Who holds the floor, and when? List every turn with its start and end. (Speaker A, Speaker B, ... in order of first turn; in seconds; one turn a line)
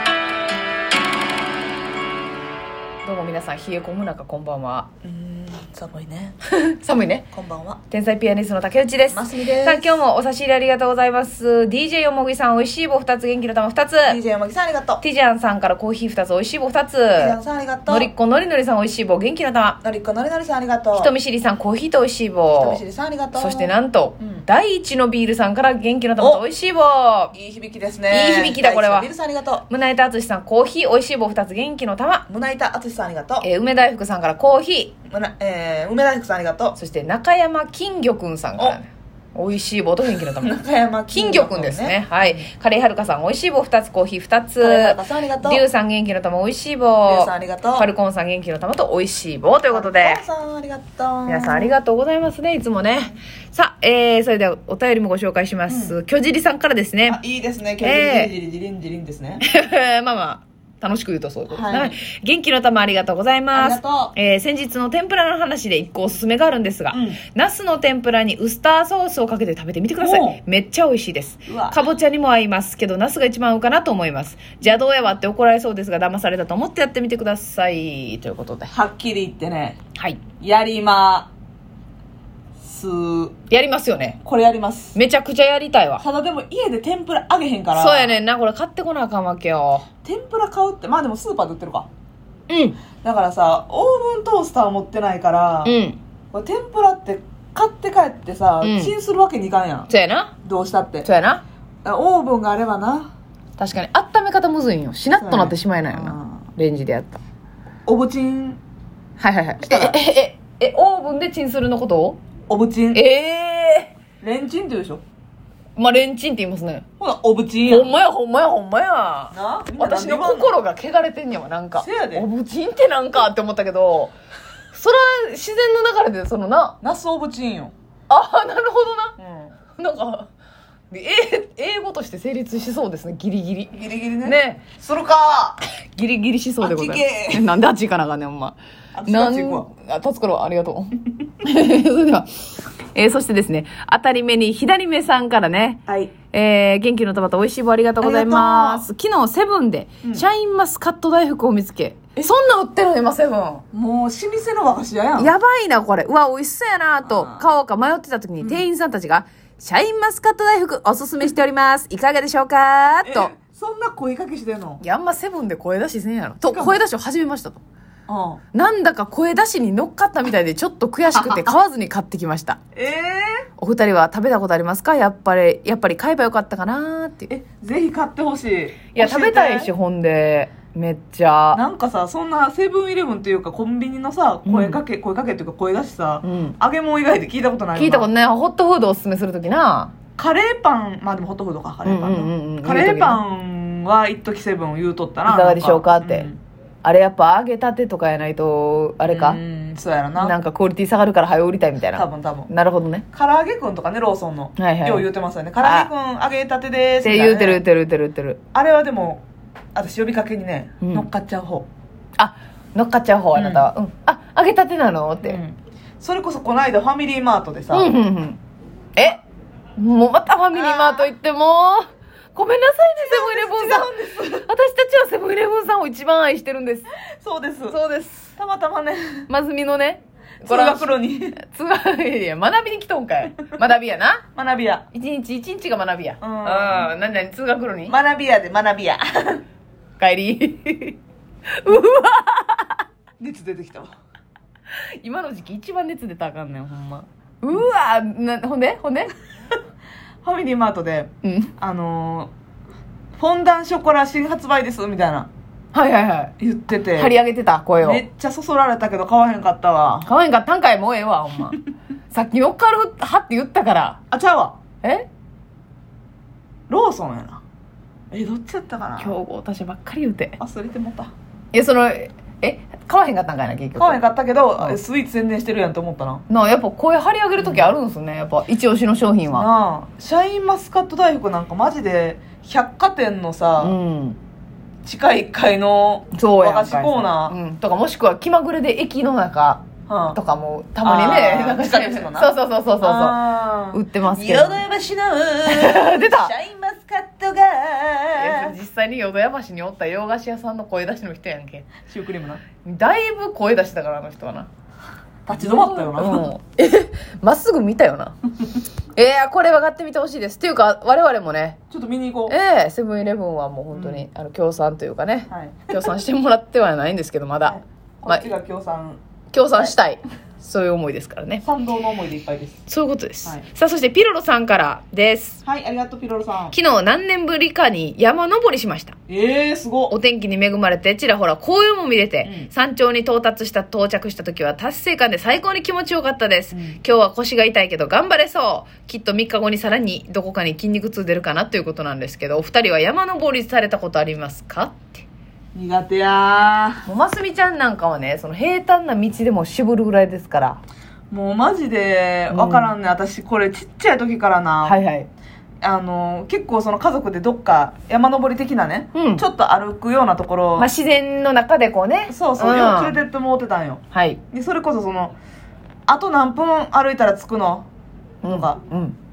Speaker A: 3.0-4.9
Speaker B: 5.0-6.4
Speaker A: 6.5-7.3
Speaker B: 7.3-7.8
Speaker A: 7.9-14.2
Speaker B: 9.1-9.9
Speaker B: 14.1-15.0
Speaker A: 15.0-17.4
Speaker B: 17.2-18.1
Speaker A: 17.9-19.8
Speaker B: 19.8-21.1
Speaker A: 20.9-22.8
Speaker B: 22.6-24.4
Speaker A: 23.4-27.4
Speaker B: 27.3-29.6
Speaker A: 28.1-29.1
Speaker A: 29.7-32.2
Speaker B: 32.3-33.5
Speaker A: 33.4-34.9
Speaker B: 35.1-36.8
Speaker A: 36.8-50.2
Speaker B: 40.4-42.5
Speaker B: 44.6-45.6
Speaker B: 47.1-47.9
Speaker B: 49.7-51.7
Speaker A: 51.3-57.2
Speaker B: 55.7-56.0
Speaker B: 57.1-59.4
Speaker A: 57.8-58.3
Speaker A: 59.4-78.7
Speaker B: 61.5-62.0
Speaker B: 63.5-64.1
Speaker B: 66.9-67.2
Speaker B: 70.0-70.4
Speaker B: 71.5-71.9
Speaker B: 78.7-79.8
Speaker A: 80.0-80.2
Speaker B: 80.4-81.3
Speaker B: 82.6-83.3
Speaker A: 83.5-84.2
Speaker B: 84.2-85.0
Speaker A: 85.0-86.0
Speaker B: 86.0-88.2
Speaker A: 87.7-89.9
Speaker B: 90.0-91.9
Speaker A: 92.5-92.8
Speaker B: 93.0-95.8
Speaker A: 95.7-96.0
Speaker B: 96.3-99.9
Speaker A: 98.6-98.9
Speaker A: 99.9-100.3
Speaker B: 100.4-101.1
Speaker A: 101.0-101.4
Speaker B: 101.8-103.1
Speaker A: 103.6-107.2
Speaker B: 105.2-106.5
Speaker B: 107.9-108.6
Speaker A: 109.2-112.2
Speaker B: 109.6-110.0
Speaker B: 112.5-113.0
Speaker A: 112.9-113.9
Speaker B: 114.2-115.0
Speaker A: 115.8-116.8
Speaker B: 117.0-117.9
Speaker A: 117.7-124.1
Speaker B: 119.3-120.5
Speaker B: 121.8-122.3
Speaker A: 124.7-126.8
Speaker B: 126.8-127.7
Speaker A: 128.1-129.2
Speaker B: 129.2-129.5
Speaker A: 129.8-130.3
Speaker A: 130.9-134.7
Speaker B: 133.7-135.6
Speaker A: 135.9-142.3
Speaker B: 136.6-137.5
Speaker B: 138.9-139.7
Speaker A: 142.9-153.6
Speaker B: 145.9-146.1
Speaker B: 148.0-148.9
Speaker B: 153.7-155.3
Speaker A: 155.2-163.3
Speaker B: 157.1-157.5
Speaker B: 163.0-164.8
Speaker A: 164.8-167.6
Speaker B: 166.5-166.8
Speaker B: 168.1-168.4
Speaker A: 168.5-172.6
Speaker B: 171.1-171.6
Speaker B: 172.8-173.4
Speaker A: 173.6-177.3
Speaker B: 177.3-179.7
Speaker A: 178.9-181.6
Speaker B: 181.5-188.1
Speaker A: 184.5-184.8
Speaker A: 186.2-186.6
Speaker A: 187.7-189.9
Speaker B: 190.2-196.4
Speaker A: 191.8-193.2
Speaker A: 195.3-196.3
Speaker A: 196.8-199.4
Speaker B: 199.0-200.4
Speaker A: 200.2-203.0
Speaker B: 201.9-202.5
Speaker B: 203.1-207.6
Speaker A: 204.6-205.1
Speaker A: 205.6-205.9
Speaker A: 207.0-208.4
Speaker B: 208.5-209.2
Speaker B: 209.8-211.7
Speaker A: 210.8-211.1
Speaker A: 212.2-215.4
Speaker B: 213.3-213.7
Speaker B: 215.2-217.9
Speaker A: 217.7-218.4
Speaker A: 219.0-219.2
Speaker A: 219.8-227.0
Speaker B: 220.5-221.1
Speaker B: 223.0-224.5
Speaker B: 227.1-227.8
Speaker A: 227.7-228.3
Speaker B: 228.4-229.3
Speaker A: 229.3-234.2
Speaker B: 230.4-231.4
Speaker B: 234.3-234.8
Speaker A: 234.9-237.9
Speaker B: 236.2-236.9
Speaker B: 237.9-239.4
Speaker A: 240.0-241.0
Speaker A: 241.6-242.8
Speaker B: 243.2-243.9
Speaker A: 245.0-249.1
Speaker B: 250.2-252.3
Speaker A: 251.2-251.5
Speaker B: 253.2-255.3
Speaker A: 255.7-256.3
Speaker B: 256.4-257.2
Speaker A: 256.9-258.0
Speaker B: 257.8-260.1
Speaker A: 260.1-264.0
Speaker B: 264.1-264.6
Speaker B: 266.7-267.4
Speaker B: 268.1-269.1
Speaker A: 269.0-270.4
Speaker B: 270.4-271.1
Speaker A: 271.5-274.0
Speaker B: 273.8-276.2
Speaker A: 276.3-279.5
Speaker B: 277.4-277.8
Speaker B: 279.3-283.8
Speaker A: 283.6-284.2
Speaker B: 284.9-287.4
Speaker A: 286.1-294.6
Speaker B: 289.9-290.2
Speaker B: 290.8-298.6
Speaker A: 295.5-296.3
Speaker A: 298.1-301.7
Speaker B: 301.9-302.4
Speaker A: 302.6-304.5
Speaker B: 305.3-306.3
Speaker A: 305.3-308.1
Speaker A: 308.9-311.6
Speaker B: 311.7-312.4
Speaker A: 312.3-318.3
Speaker B: 313.7-314.1
Speaker B: 315.3-315.9
Speaker B: 317.4-319.0
Speaker A: 319.3-321.4
Speaker B: 321.4-322.6
Speaker A: 322.7-325.4
Speaker B: 325.4-326.6
Speaker A: 326.5-329.0
Speaker B: 329.1-329.9
Speaker A: 329.9-345.1
Speaker B: 332.2-332.5
Speaker B: 336.5-336.8
Speaker B: 345.6-346.8
Speaker A: 346.9-350.6
Speaker B: 351.1-354.8
Speaker A: 352.3-352.7
Speaker A: 354.6-355.1
Speaker B: 355.6-360.7
Speaker A: 358.9-359.2
Speaker A: 360.6-363.0
Speaker B: 362.1-365.1
Speaker A: 363.9-364.2
Speaker B: 365.9-367.7
Speaker A: 368.2-369.0
Speaker B: 368.3-368.6